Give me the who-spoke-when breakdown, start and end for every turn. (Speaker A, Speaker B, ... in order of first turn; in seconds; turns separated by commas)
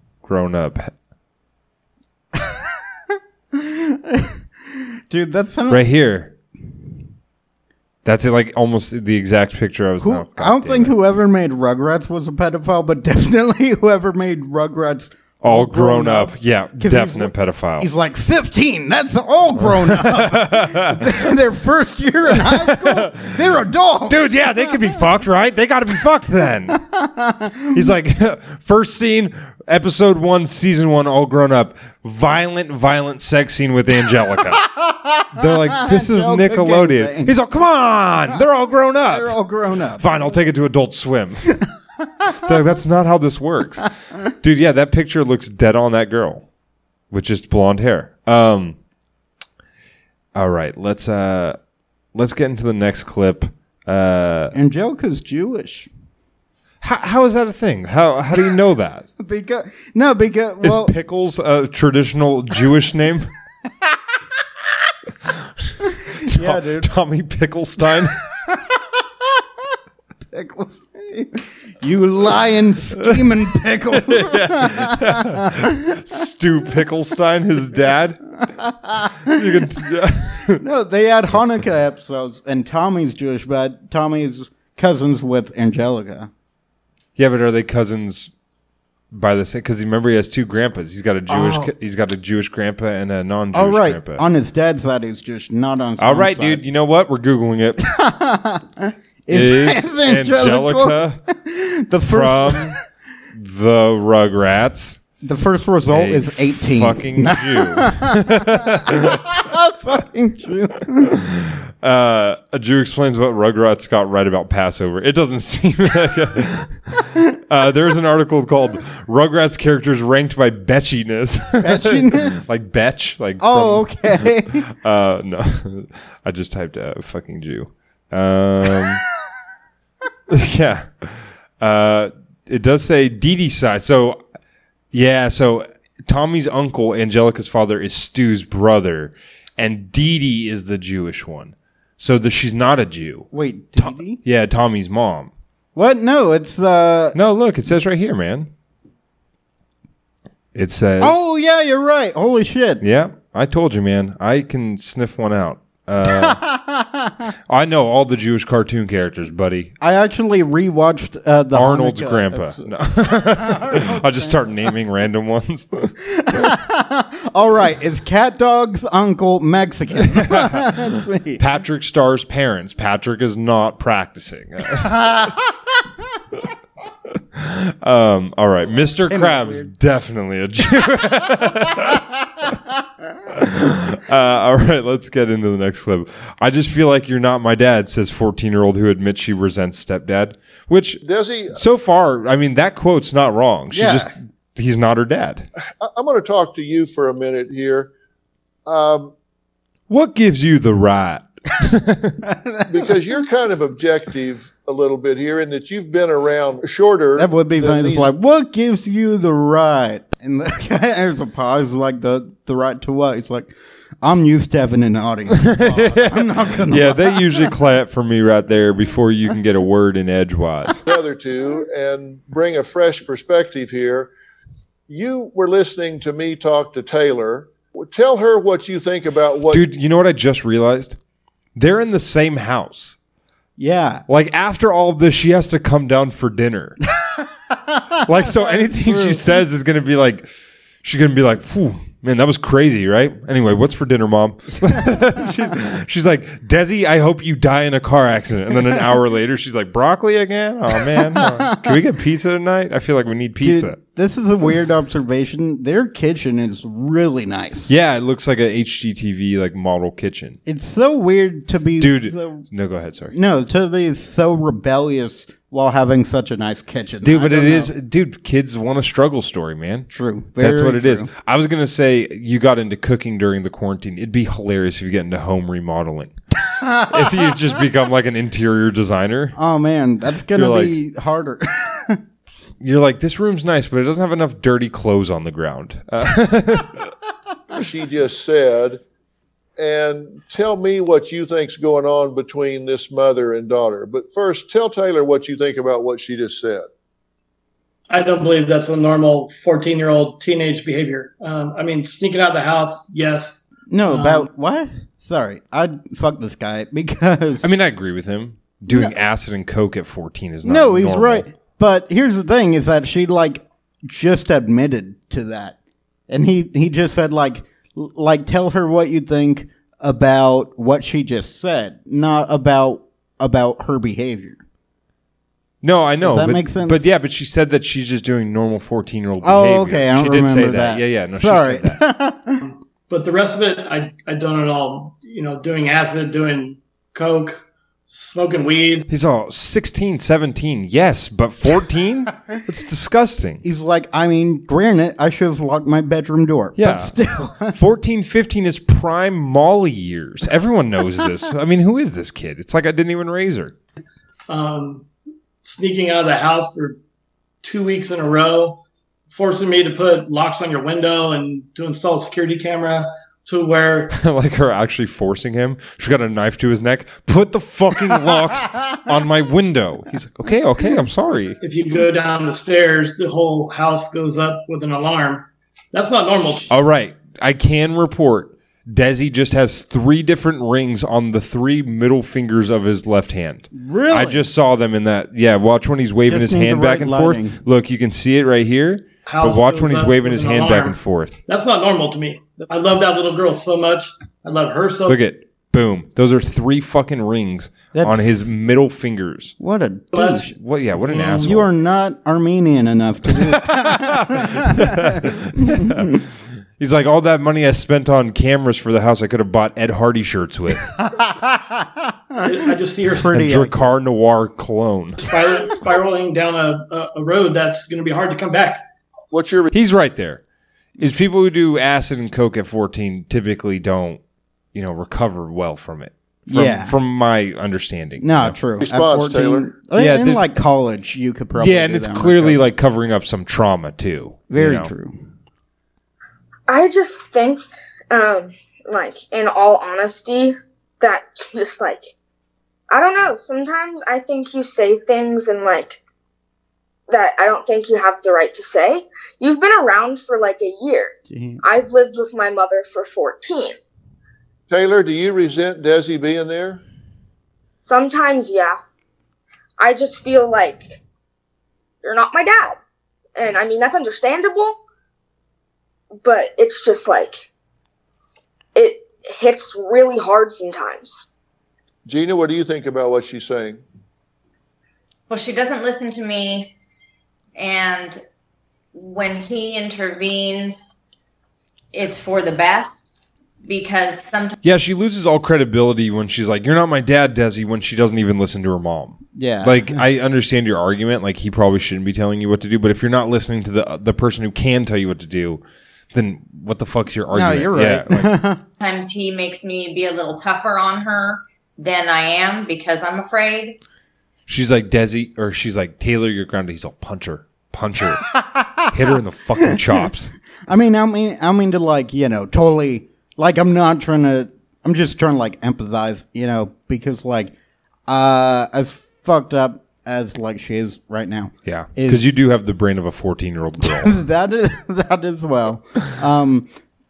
Speaker A: 0.2-0.9, Speaker B: 2.3-5.8, Speaker A: 5.7-6.3, Speaker A: 8.0-10.9, Speaker B: 10.0-25.0, Speaker A: 15.4-17.9, Speaker A: 19.6-21.0, Speaker A: 22.5-23.4, Speaker A: 24.1-26.8, Speaker B: 26.7-27.9, Speaker A: 27.7-34.6, Speaker B: 34.6-37.3, Speaker A: 35.3-39.4, Speaker B: 39.0-40.3, Speaker A: 40.0-41.5, Speaker B: 42.0-42.5, Speaker A: 42.4-43.9, Speaker B: 43.8-44.3, Speaker A: 44.4-46.5, Speaker A: 47.1-48.8, Speaker A: 50.3-51.6, Speaker A: 52.1-54.5, Speaker B: 54.5-55.9, Speaker A: 56.8-59.0, Speaker B: 59.2-60.9, Speaker A: 60.6-63.3, Speaker A: 65.6-68.2, Speaker B: 66.1-66.9, Speaker B: 68.5-69.4, Speaker B: 70.3-76.0, Speaker A: 73.9-78.2, Speaker B: 78.5-79.6, Speaker A: 79.2-80.6, Speaker B: 80.5-86.3, Speaker A: 87.2-88.3, Speaker A: 89.1-94.2, Speaker B: 91.3-91.7, Speaker B: 93.5-96.6, Speaker A: 96.0-97.8, Speaker B: 97.8-102.8, Speaker A: 99.3-101.2, Speaker A: 102.1-102.8, Speaker A: 103.3-105.0, Speaker B: 105.2-111.1, Speaker A: 105.9-109.2, Speaker A: 111.1-129.0, Speaker B: 121.6-122.4, Speaker B: 123.4-124.6, Speaker A: 130.3-134.2, Speaker A: 134.9-145.3, Speaker B: 143.3-144.2, Speaker B: 145.8-147.2, Speaker A: 147.1-148.5, Speaker A: 150.5-151.2, Speaker B: 151.0-152.8, Speaker A: 152.8-156.4, Speaker B: 156.0-157.3, Speaker A: 157.5-159.7, Speaker B: 159.8-164.7, Speaker A: 161.5-165.9, Speaker B: 166.1-171.4, Speaker A: 170.1-175.0, Speaker B: 174.8-175.5, Speaker A: 177.3-182.0, Speaker B: 179.1-179.7, Speaker A: 183.3-191.0, Speaker C: 191.0-191.6, Speaker A: 191.5-195.5, Speaker B: 193.7-194.1, Speaker C: 195.8-197.9, Speaker C: 198.7-199.1, Speaker A: 199.9-202.2, Speaker B: 202.2-202.9, Speaker C: 202.7-208.1, Speaker B: 207.2-217.5, Speaker A: 215.3-220.8, Speaker C: 220.9-224.1, Speaker C: 224.9-229.6, Speaker A: 229.5-231.0, Speaker A: 231.6-232.9, Speaker B: 233.6-234.0, Speaker A: 234.1-236.8, Speaker B: 237.0-239.4, Speaker A: 238.1-240.3, Speaker A: 240.8-253.8, Speaker B: 250.8-251.7, Speaker B: 253.4-257.7, Speaker A: 257.7-260.4, Speaker B: 260.4-262.4, Speaker A: 261.8-263.1, Speaker B: 263.1-267.7, Speaker A: 267.0-276.1, Speaker B: 269.9-271.1, Speaker B: 276.6-277.0, Speaker A: 276.8-279.4, Speaker B: 279.4-282.0, Speaker A: 280.3-280.8, Speaker A: 282.6-286.9, Speaker C: 287.5-288.8, Speaker C: 289.6-296.6, Speaker D: 297.9-304.3, Speaker B: 303.7-307.4, Speaker A: 307.4-311.2, Speaker B: 308.7-308.9, Speaker B: 310.4-315.6, Speaker B: 316.1-324.4, Speaker A: 325.6-331.8, Speaker B: 326.0-326.8, Speaker B: 329.2-332.4, Speaker D: 332.4-338.9, Speaker A: 338.9-343.4, Speaker B: 343.4-347.6, Speaker A: 346.6-347.0, Speaker A: 347.5-353.5, Speaker D: 354.3-354.9, Speaker D: 355.4-356.8, Speaker D: 357.4-363.9, Speaker A: 363.9-371.4, Speaker D: 371.4-376.5, Speaker A: 376.5-391.1, Speaker B: 383.5-384.3, Speaker B: 386.1-387.4, Speaker D: 389.1-395.0, Speaker A: 394.9-399.4, Speaker B: 397.7-398.3, Speaker B: 399.4-400.3, Speaker D: 399.9-400.3, Speaker A: 400.3-401.5, Speaker D: 400.8-401.3, Speaker B: 401.0-405.9, Speaker A: 403.4-405.9, Speaker A: 406.6-410.7, Speaker B: 410.8-411.9, Speaker D: 412.2-413.1, Speaker B: 412.9-413.6, Speaker A: 413.0-415.0, Speaker D: 415.0-418.6, Speaker C: 419.1-419.5, Speaker A: 419.5-420.2, Speaker A: 420.8-424.0, Speaker A: 424.5-428.4, Speaker B: 426.3-426.8, Speaker B: 428.0-432.4, Speaker C: 428.6-429.5, Speaker A: 429.7-430.3, Speaker A: 431.4-434.7, Speaker B: 434.3-435.0, Speaker E: 436.5-441.9, Speaker E: 442.7-445.8, Speaker E: 446.9-453.6, Speaker B: 451.1-451.4, Speaker C: 454.5-456.6, Speaker E: 457.6-458.6, Speaker E: 459.6-460.7, Speaker E: 461.8-462.6, Speaker E: 463.1-464.6, Speaker E: 466.0-467.2, Speaker E: 468.5-471.1, Speaker C: 471.9-473.6, Speaker F: 475.1-476.5, Speaker F: 477.4-478.0, Speaker F: 478.7-480.8, Speaker F: 481.7-482.9, Speaker F: 483.4-484.4, Speaker A: 484.4-495.4, Speaker B: 489.1-489.8, Speaker A: 495.9-498.2, Speaker B: 497.1-498.4, Speaker F: 498.6-503.6, Speaker A: 504.3-508.0, Speaker B: 508.1-508.6, Speaker A: 508.7-510.1, Speaker B: 509.5-509.8, Speaker B: 510.5-517.3, Speaker B: 517.9-522.0, Speaker A: 521.4-524.0, Speaker B: 523.6-526.5